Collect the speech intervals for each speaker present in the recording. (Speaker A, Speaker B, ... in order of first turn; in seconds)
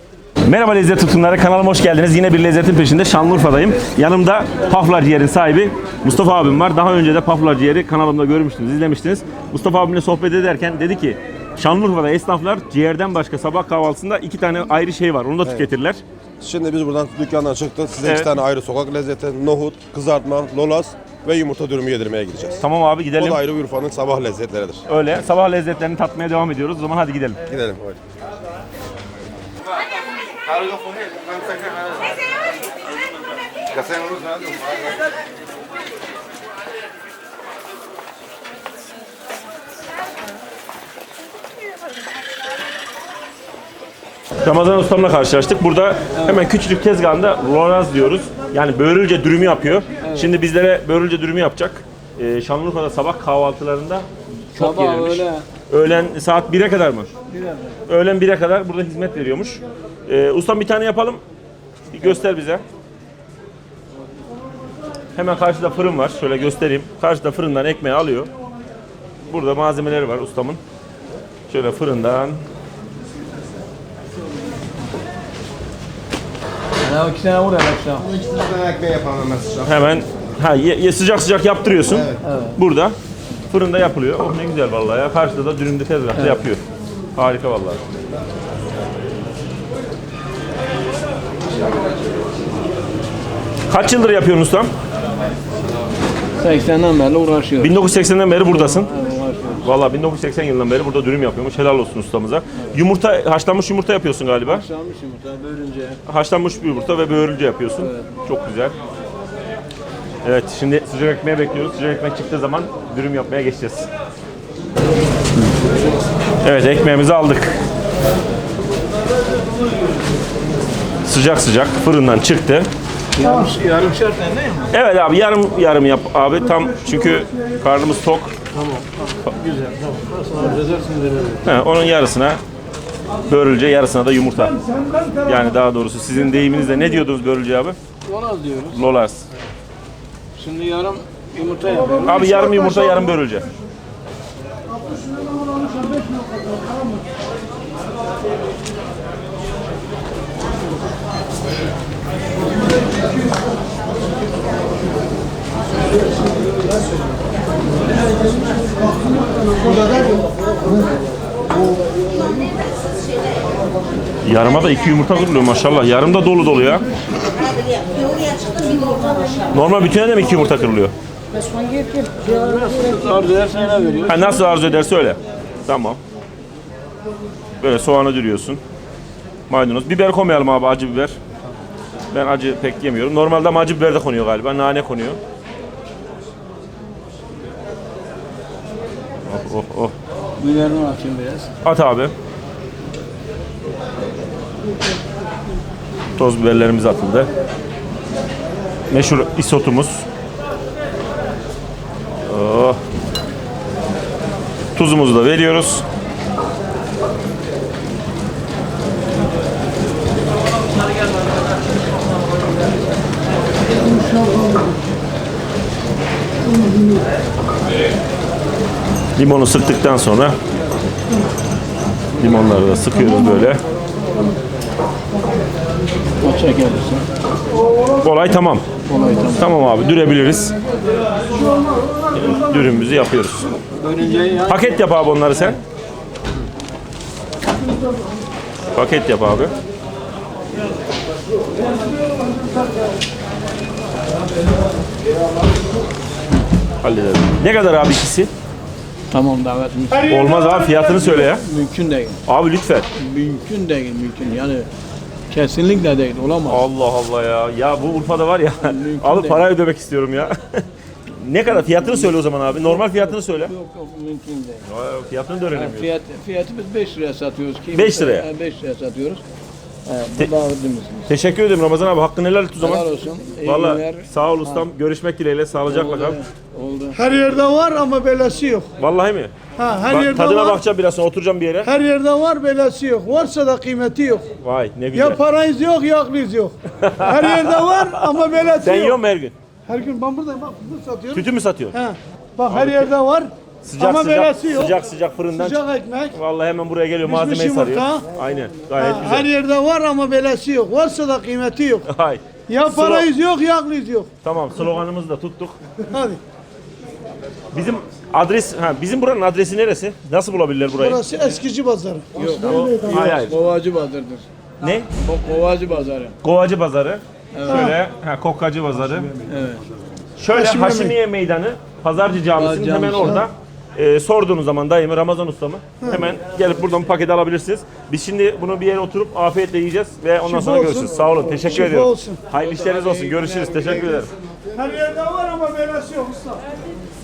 Speaker A: 0.4-16.0, 18.0-18.3, 22.6-23.4, 24.9-27.4, 44.4-57.1, 57.9-61.2, 61.9-62.6, 65.2-68.3, 69.3-70.6, 71.5-72.4, 79.6-83.0, 83.5-86.6, 87.2-87.8, 93.7-94.7, 97.6-98.9, 99.6-104.7, 106.1-108.8, 110.2-113.9, 116.4-117.6, 121.0-122.7, 124.7-128.3, 131.4-132.4, 133.3-134.6, 135.2-137.8, 138.7-139.3, 142.1-143.5, 164.2-166.9, 169.5-170.9, 174.1-176.0, 177.6-178.6, 179.5-181.2, 182.1-185.2, 189.3-189.9, 191.6-192.1, 196.2-197.3, 198.9-200.0, 202.2-202.8, 204.7-205.8, 219.2-220.4, 222.2-223.6, 228.0-228.7, 229.4-230.6, 232.1-233.6, 234.5-235.6, 238.7-239.5, 246.8-248.3, 250.1-251.4, 252.3-252.9, 256.5-263.5, 264.7-265.9, 267.7-268.3, 271.1-272.9, 273.4-276.2, 278.8-279.3, 279.9-281.7, 284.4-285.2, 286.8-289.4, 291.1-291.8, 292.5-292.9, 293.6-295.6, 296.1-299.3, 301.9-303.1, 304.2-305.6, 307.5-311.0, 312.8-313.4, 314.6-314.9, 316.2-319.1, 320.2-334.1
Speaker B: 6.1-6.6, 15.4-15.7, 16.4-22.6, 23.2-24.8, 27.5-28.0, 31.3-31.6, 33.8-34.6, 78.3-79.7
Speaker C: 46.1-46.5, 50.0-50.3, 54.5-55.5, 57.3-57.8, 76.8-78.2, 82.2-82.6, 86.2-86.4, 96.4-97.8, 98.5-99.7, 104.4-106.0, 107.8-108.1, 123.2-124.7, 128.5-131.5, 138.1-138.8, 140.3-142.5, 172.0-174.5, 190.4-191.5, 226.2-227.0, 228.9-229.5, 233.7-234.8, 249.1-252.2, 253.0-254.7, 255.3-256.7, 258.6-259.5, 261.6-264.6, 265.5-269.2, 269.9-271.1, 272.6-274.7, 275.7-277.0, 312.1-314.3, 314.9-316.1, 317.3-317.8, 319.2-319.7, 322.3-323.2, 332.4-334.1
Speaker D: 145.3-146.8, 277.0-278.7, 279.6-280.6, 281.6-284.3, 284.9-289.0, 289.7-294.8, 295.3-296.2, 297.0-298.1, 298.8-301.9, 302.5-304.1, 305.9-306.2, 310.8-313.3, 320.3-321.0, 330.2-332.2, 334.5-336.4